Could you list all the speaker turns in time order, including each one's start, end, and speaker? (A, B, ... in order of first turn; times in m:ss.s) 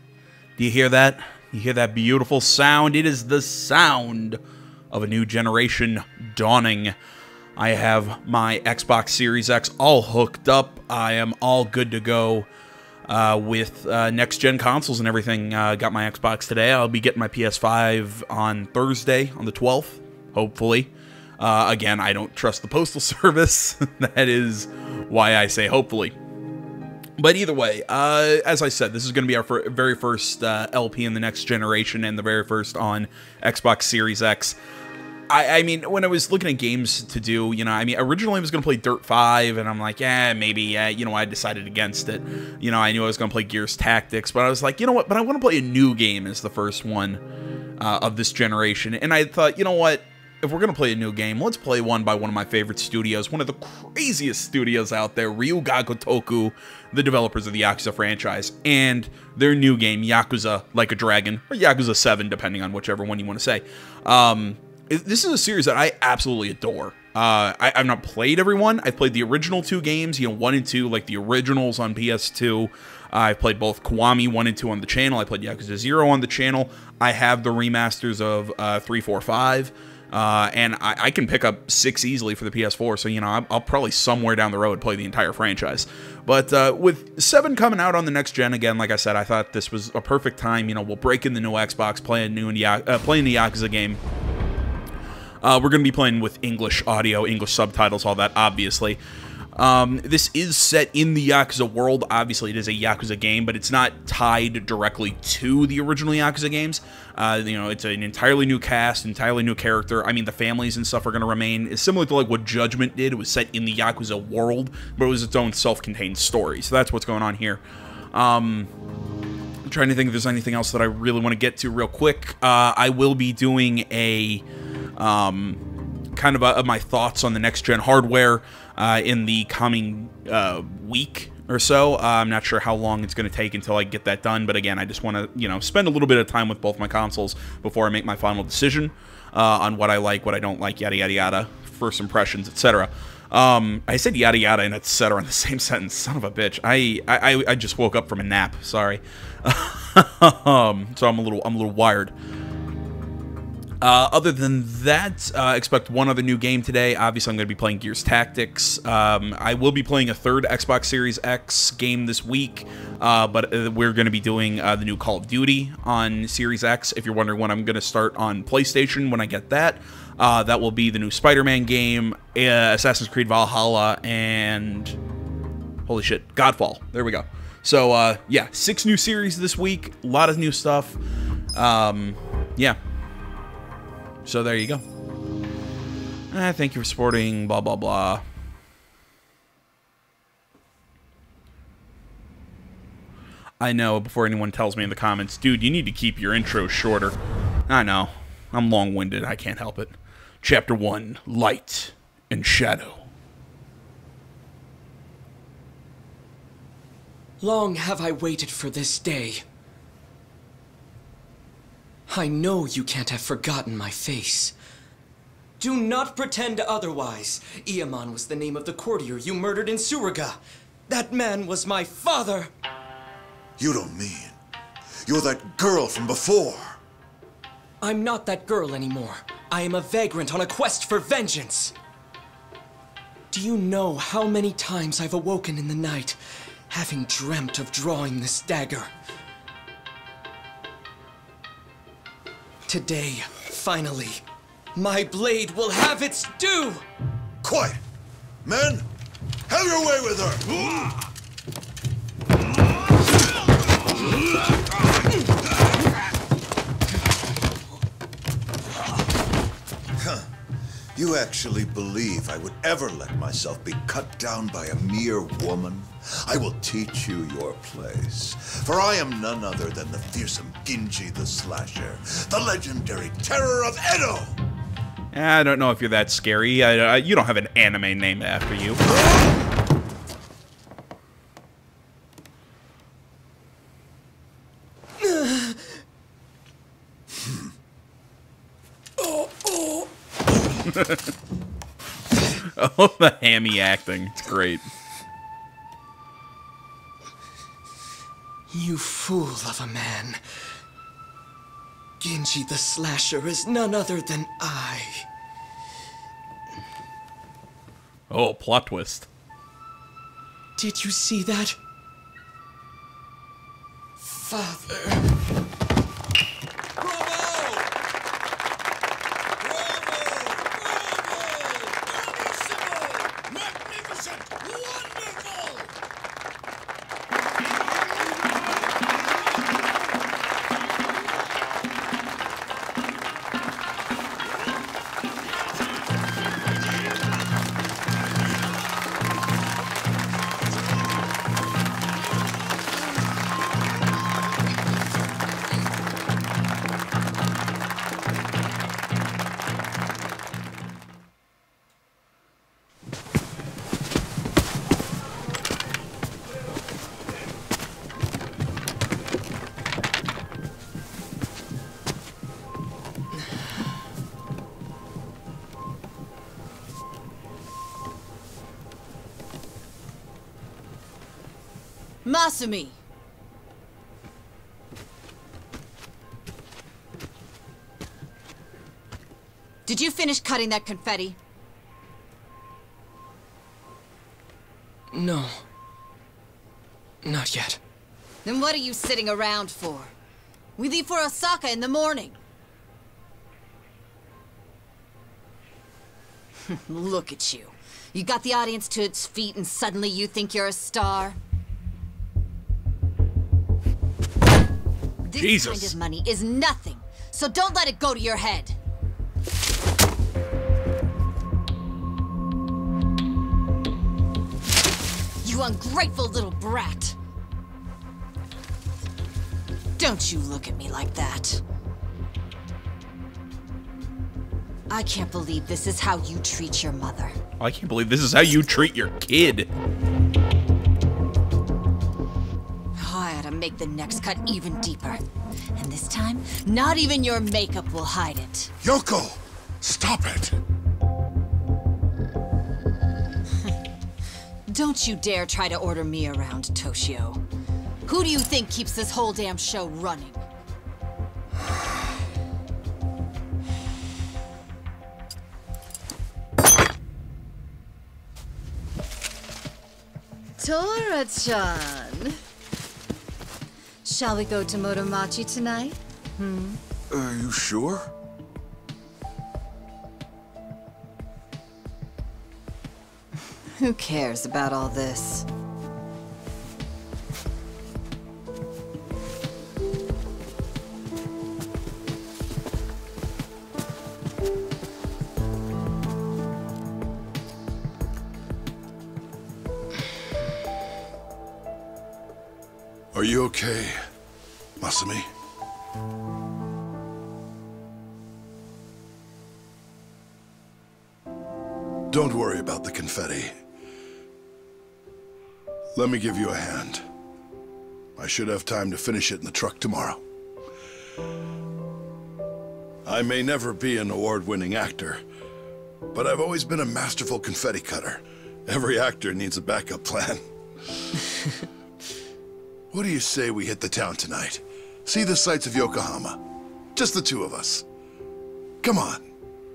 0:00.6-0:04.4 A
0:04.9-0:06.9 A
0:07.6-0:12.5 A
0:13.1-0:26.1 A
0:27.2-0:34.6 A
0:35.3-0:47.2 A
0:47.8-1:34.0 A
1:35.4-1:39.0 A
1:39.5-1:57.6 A
1:58.1-1:58.7 A
1:59.6-2:04.4 A
2:05.0-2:05.6 A
2:06.2-2:32.1 A
2:33.8-2:55.0 A
2:55.8-3:01.0 A
3:01.5-3:02.8 A
3:04.2-3:04.8 A
3:06.3-3:08.2 A
3:13.6-3:17.2 A
3:17.7-3:23.1 A
3:27.4-3:29.4 B
3:32.1-3:34.5 B
3:35.6-3:42.5 B
3:43.6-3:44.4 C
3:45.0-3:46.8 C
3:47.8-3:51.7 B
3:53.3-3:58.9 B
4:02.6-4:04.2 B
4:04.7-4:06.8 B
4:07.4-4:07.8 C
4:08.4-4:08.8 C
4:09.5-4:10.9 C
4:20.9-4:34.4 C
4:35.1-4:38.8 A
4:45.0-4:45.6 B
4:49.0-4:49.9 B
4:50.7-4:51.0 A
4:52.4-4:54.6 A
4:58.5-5:00.2 B
5:02.0-5:05.0 B
5:08.1-5:09.1 A
5:10.6-5:11.6 B
5:14.0-5:15.0 B
6:12.0-6:12.8 D
6:19.6-6:21.2 D
6:24.9-6:25.4 B
6:27.0-6:27.6 B
6:28.2-6:29.9 D
6:30.6-6:32.2 D
6:36.5-6:41.2 D
6:45.0-6:48.5 D
6:45.1-6:45.8 A
6:55.2-6:57.0 D
6:59.8-7:01.4 D
7:04.7-7:07.1 D
7:07.4-7:09.5 A
7:12.8-7:15.0 D
7:15.5-7:18.5 D
7:18.6-7:20.4 E
7:24.5-7:27.2 D
7:27.8-7:30.2 D
7:40.4-7:42.2 D
7:43.8-7:46.6 D
7:47.0-7:47.7 C
7:53.6-7:55.3 D
8:12.9-8:13.8 E
8:14.6-8:15.1 E
8:21.9-8:23.3 E
8:25.7-8:26.8 E
8:28.0-8:30.0 E
8:32.8-8:35.0 E
8:35.9-8:40.2 E
8:42.7-8:46.2 E
8:46.7-8:47.6 E
8:48.6-8:49.0 E